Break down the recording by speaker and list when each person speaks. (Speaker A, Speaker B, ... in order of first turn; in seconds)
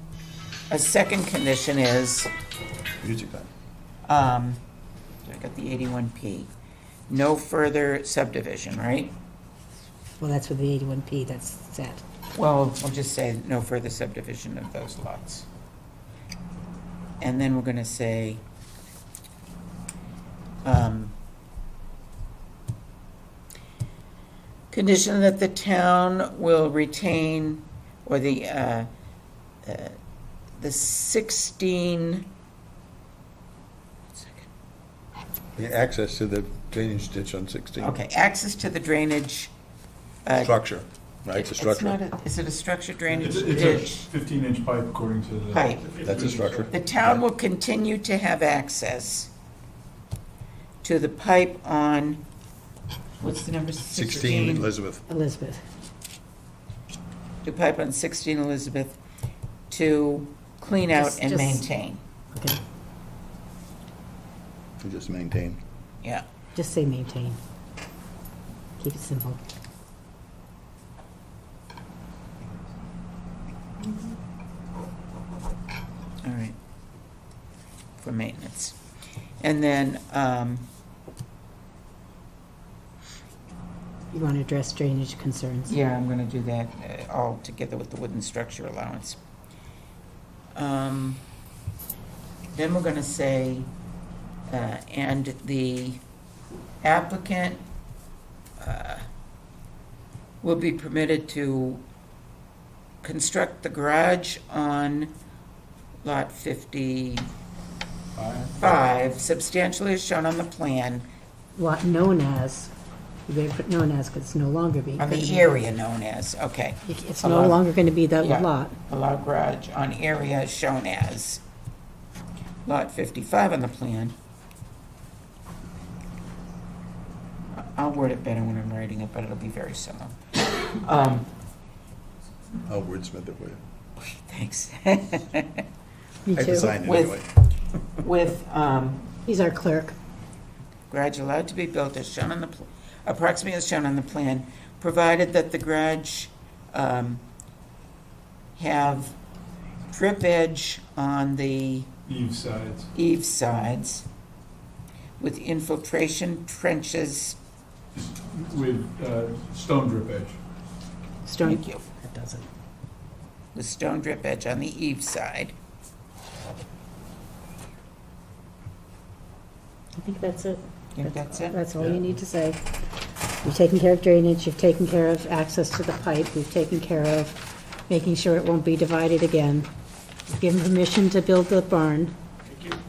Speaker A: 0.7-2.3, 4.1-4.6, 5.2-6.5, 7.1-9.1, 12.3-15.4, 17.2-18.4, 20.6-21.1, 24.7-28.9, 29.6-29.9, 30.6-32.3, 34.1-34.5, 37.8-39.5, 40.2-40.5, 41.3-44.1, 45.5-45.9, 46.7-49.3, 50.8-52.2, 53.2-54.7, 57.4-59.0, 59.7-62.0, 76.2-76.5, 78.0-78.8, 79.4-80.7, 85.7-89.2, 90.5-91.2, 92.5-93.7, 94.5-96.0, 96.8-97.6, 98.6-99.0, 100.4-101.8, 103.0-105.1, 106.0-107.3, 108.6-111.0, 115.0-117.6, 118.2-121.4, 122.7-124.1, 127.5-130.2, 130.8-131.3, 134.0-135.6, 136.6-137.2, 138.0-139.0, 140.9-147.2, 148.6-149.1, 149.9-151.9, 152.9-154.0, 155.2-157.4, 161.4-161.8, 163.5-165.5, 170.9-171.6
Speaker B: 3.0-3.5, 35.5-38.0, 40.4-42.0, 46.0-47.2, 53.9-55.0, 64.8-65.6, 132.7-133.6, 136.3-137.2
Speaker C: 10.2-12.0, 55.1-55.6, 60.9-61.6, 62.3-62.6, 66.5-67.4, 68.8-69.4, 84.1-85.8, 111.5-112.7, 113.3-115.5, 116.8-118.8, 136.2-136.7, 139.2-139.9, 161.2-162.4, 170.0-172.6, 173.4-179.7, 180.3-182.1
Speaker D: 43.1-46.6, 108.2-108.5, 152.1-152.9, 157.9-160.4